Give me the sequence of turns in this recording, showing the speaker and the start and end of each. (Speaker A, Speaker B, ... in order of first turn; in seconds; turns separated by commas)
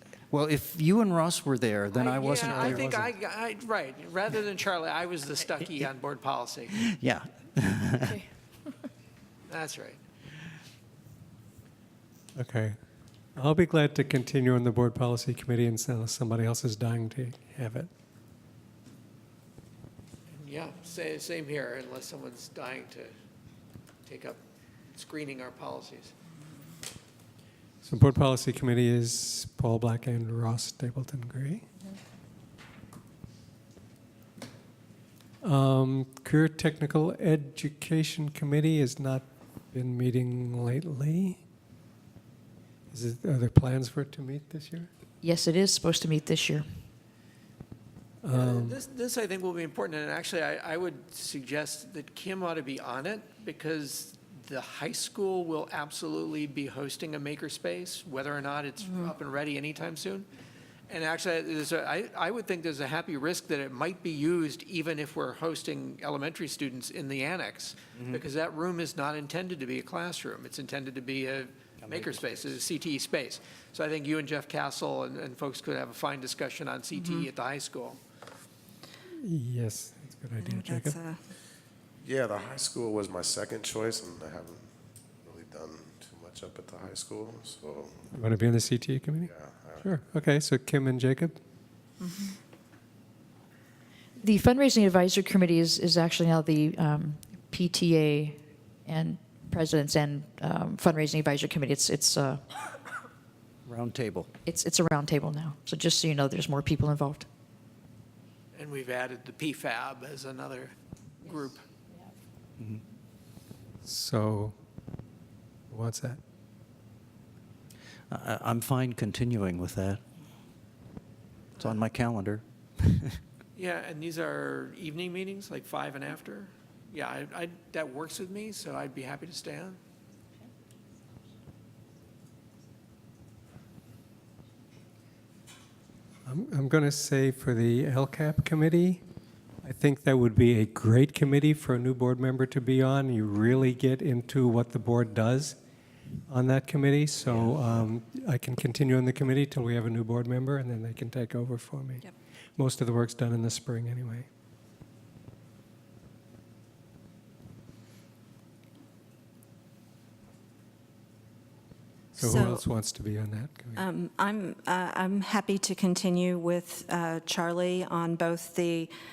Speaker A: 0.3-3.1, Speaker B: 1.9-6.8, Speaker A: 6.7-8.2, Speaker B: 9.5-10.0, Speaker C: 12.3-12.8, Speaker C: 13.3-17.9, Speaker B: 20.3-23.1, Speaker B: 24.1-24.4, Speaker B: 24.9-26.1, Speaker C: 27.8-31.7, Speaker C: 35.4-41.4, Speaker C: 42.9-44.9, Speaker D: 45.2-46.7, Speaker C: 48.2-48.8, Speaker B: 48.3-60.2, Speaker B: 60.9-78.0, Speaker A: 68.0-68.2, Speaker A: 71.8-72.6, Speaker C: 79.2-81.0, Speaker E: 80.4-81.2, Speaker F: 82.0-84.6, Speaker F: 85.2-87.9, Speaker C: 88.1-91.4, Speaker F: 89.2-89.9, Speaker E: 92.0-92.3, Speaker D: 94.2-102.4, Speaker A: 103.7-104.3, Speaker D: 104.5-107.3, Speaker B: 108.5-111.6, Speaker C: 113.8-114.5, Speaker C: 115.7-116.2, Speaker A: 118.1-120.0, Speaker A: 121.5-123.2, Speaker B: 123.5-129.8, Speaker C: 136.2-139.0, Speaker C: 139.6-145.6, Speaker C: 146.3-154.3, Speaker A: 147.2-147.9, Speaker E: 162.2-162.6, Speaker C: 162.2-163.8, Speaker E: 163.8-168.9